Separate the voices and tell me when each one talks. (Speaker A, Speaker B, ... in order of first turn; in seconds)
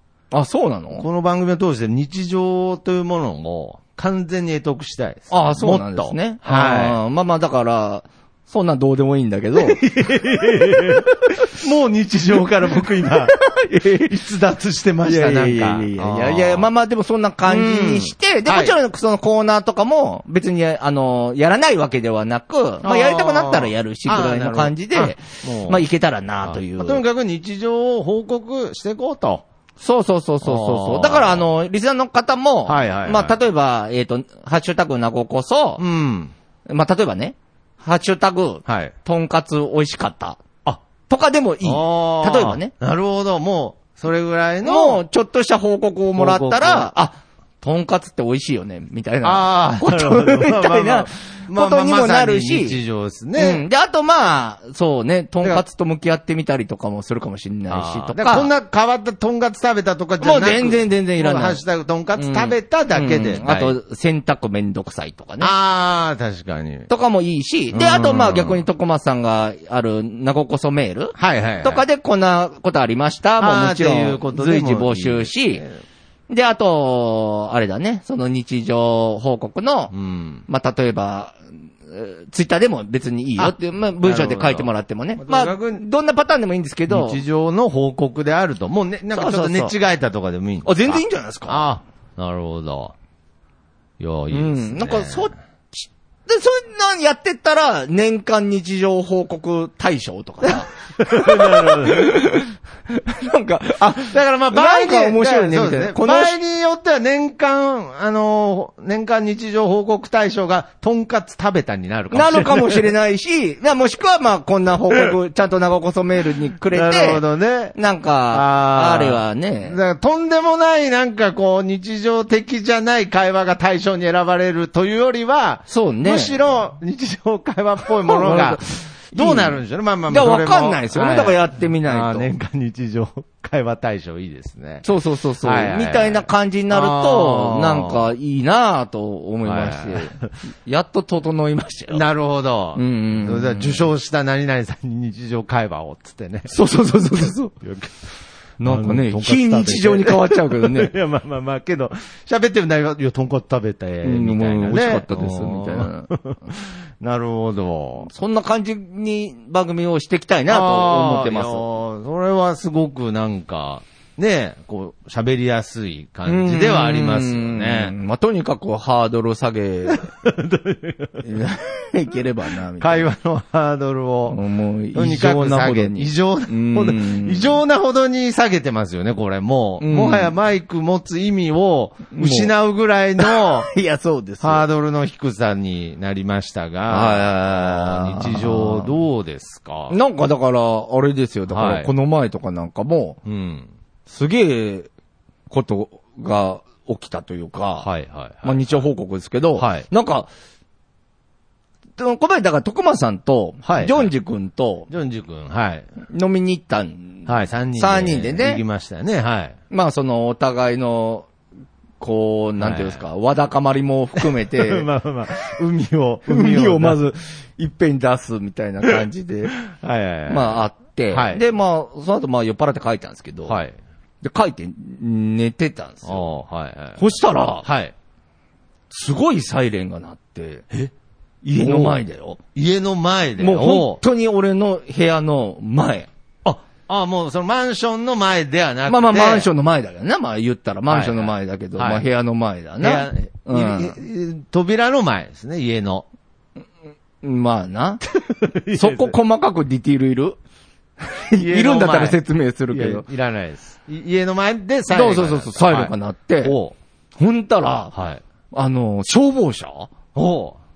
Speaker A: 0.3-1.1, 5.3-9.8, 13.0-14.1, 15.1-27.0, 29.8-35.8, 36.7-40.4, 41.1-42.7, 44.6-52.8, 53.4-58.5, 60.2-61.6, 62.1-65.5, 66.9-75.6, 76.3-79.9, 80.5-87.2, 89.1-89.7, 90.6-91.7, 94.3-106.4, 112.1-117.2, 117.7-119.8, 125.7-126.3, 128.0-132.3, 134.8-142.0, 142.7-143.9, 146.5-147.5, 148.6-150.9, 154.0-156.1, 158.0-161.6, 166.2-170.1, 171.2-173.1, 174.3-177.6, 179.8-180.3, 182.1-182.5, 183.2-184.6, 186.9-189.0, 189.9-193.2, 194.1-194.9, 195.5-197.9, 198.4-200.3, 202.0-204.9, 206.0-208.6, 209.7-211.3, 212.0-214.9, 216.3-219.5, 220.3-223.6, 224.2-226.2, 227.0-227.7, 228.9-230.7, 231.4-232.4, 233.4-236.1, 238.9-244.0, 247.2-248.0, 248.7-250.4, 251.0-253.0, 254.9-256.6, 257.2-257.9, 258.5-259.9
Speaker B: 1.0-7.0, 9.6-13.4, 13.9-16.7, 17.5-18.8, 22.8-25.8, 26.4-29.4, 30.4-31.5, 32.7-33.4, 35.8-36.3, 38.6-38.9, 41.6-45.0, 46.1-46.9, 49.2-53.6, 57.7-63.8, 65.4-66.9, 67.7-68.7, 71.2-71.8, 73.4-75.8, 79.9-80.4, 83.4-85.8, 86.9-92.9, 94.0-95.3, 100.6-102.4, 103.9-112.9, 116.7-117.7, 118.3-134.9, 135.4-138.1, 139.4-140.2, 141.9-146.5, 147.2-148.1, 148.6-158.1, 160.5-167.9, 169.9-171.4, 172.8-174.4, 174.9-183.7, 184.4-190.0, 191.5-191.9, 193.2-193.7, 197.8-198.8, 199.6-199.9, 203.6-204.1, 204.9-205.9, 207.3-209.6, 212.6-213.0, 214.2-217.0, 219.6-221.4, 223.5-223.8, 226.0-227.0, 227.6-227.9, 231.6-232.0, 232.5-234.0, 236.4-239.5, 240.9-242.1, 242.8-246.1, 248.1-249.2, 251.4-252.2, 252.7-256.8, 257.9-258.2, 260.1-260.6